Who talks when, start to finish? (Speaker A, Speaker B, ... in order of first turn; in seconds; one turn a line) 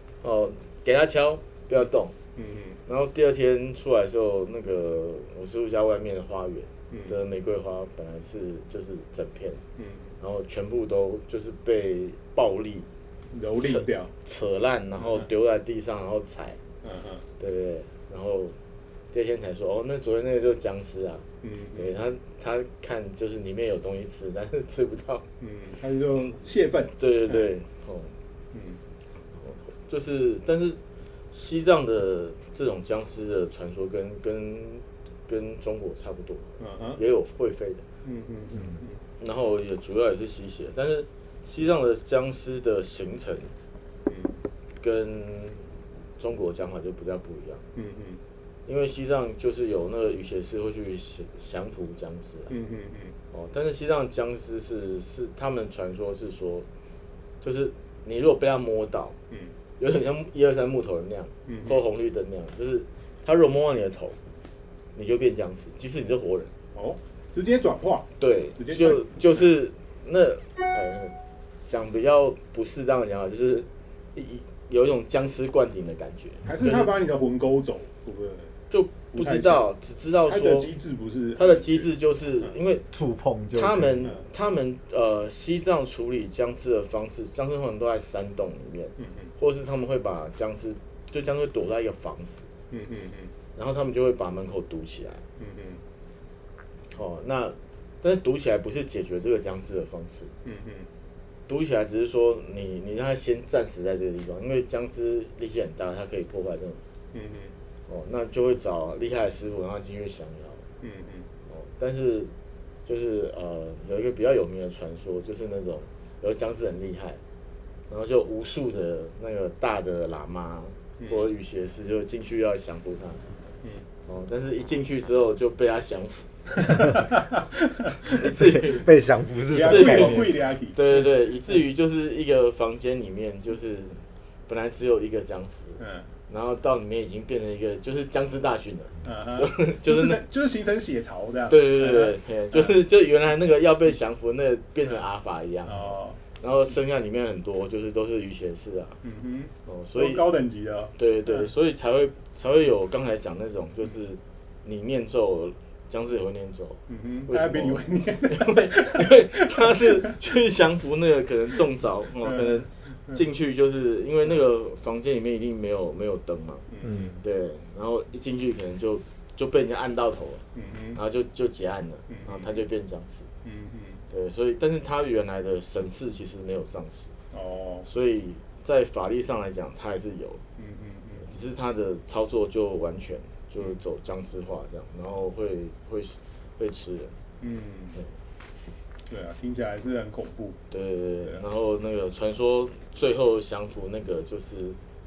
Speaker A: 0.2-2.1
Speaker B: 2.4-2.8
Speaker A: 2.9-9.6
Speaker B: 6.9-7.2
Speaker B: 9.8-10.1
Speaker A: 10.2-12.9
Speaker B: 13.3-14.1
Speaker A: 13.6-16.6
Speaker B: 15.0-15.3
Speaker B: 16.8-17.2
Speaker A: 17.4-18.6
Speaker A: 19.1-25.2
Speaker B: 21.4-21.9
Speaker B: 25.4-27.5
Speaker A: 27.0-28.1
Speaker B: 28.5-28.8
Speaker A: 29.4-30.8
Speaker A: 31.3-37.8
Speaker B: 36.6-37.0
Speaker B: 38.0-39.0
Speaker C: 38.5-38.8
Speaker A: 39.2-43.5
Speaker B: 44.1-44.3
Speaker A: 44.8-47.6
Speaker B: 47.7-48.2
Speaker A: 48.6-52.5
Speaker B: 52.5-53.1
Speaker A: 53.3-56.6
Speaker A: 57.4-59.1
Speaker A: 59.8-64.2
Speaker B: 61.5-61.8
Speaker A: 64.9-66.5
Speaker B: 66.7-69.5
Speaker A: 68.2-71.1
Speaker A: 71.7-76.9
Speaker B: 76.4-78.5
Speaker A: 78.7-80.7
Speaker B: 79.1-79.6
Speaker B: 80.2-81.9
Speaker A: 81.3-82.8
Speaker C: 82.9-84.1
Speaker A: 83.5-92.5
Speaker B: 89.0-89.3
Speaker B: 92.7-93.3
Speaker A: 93.5-95.2
Speaker B: 95.4-95.8
Speaker A: 96.9-100.3
Speaker B: 100.4-100.8
Speaker A: 101.5-106.8
Speaker B: 107.1-107.5
Speaker A: 107.9-110.6
Speaker B: 110.8-111.2
Speaker A: 111.5-112.3
Speaker A: 112.8-117.2
Speaker A: 117.9-123.2
Speaker B: 121.0-121.2
Speaker A: 124.0-126.8
Speaker A: 128.0-128.9
Speaker C: 128.1-130.3
Speaker B: 129.5-130.8
Speaker A: 129.5-140.2
Speaker B: 135.8-136.1
Speaker B: 139.0-142.7
Speaker A: 141.5-149.0
Speaker B: 145.7-146.2
Speaker B: 149.0-151.5
Speaker A: 149.7-150.2
Speaker A: 150.9-166.7
Speaker B: 156.9-159.9
Speaker B: 162.2-163.2
Speaker B: 166.7-167.1
Speaker C: 166.8-167.2
Speaker A: 167.2-170.4
Speaker B: 170.5-171.0
Speaker A: 170.9-173.3
Speaker B: 172.1-172.5
Speaker B: 173.4-174.0
Speaker A: 174.1-177.1
Speaker B: 177.3-177.8
Speaker A: 177.8-180.4
Speaker B: 180.6-181.3
Speaker A: 181.2-187.1
Speaker B: 187.4-188.0
Speaker B: 189.1-190.6
Speaker A: 190.7-194.8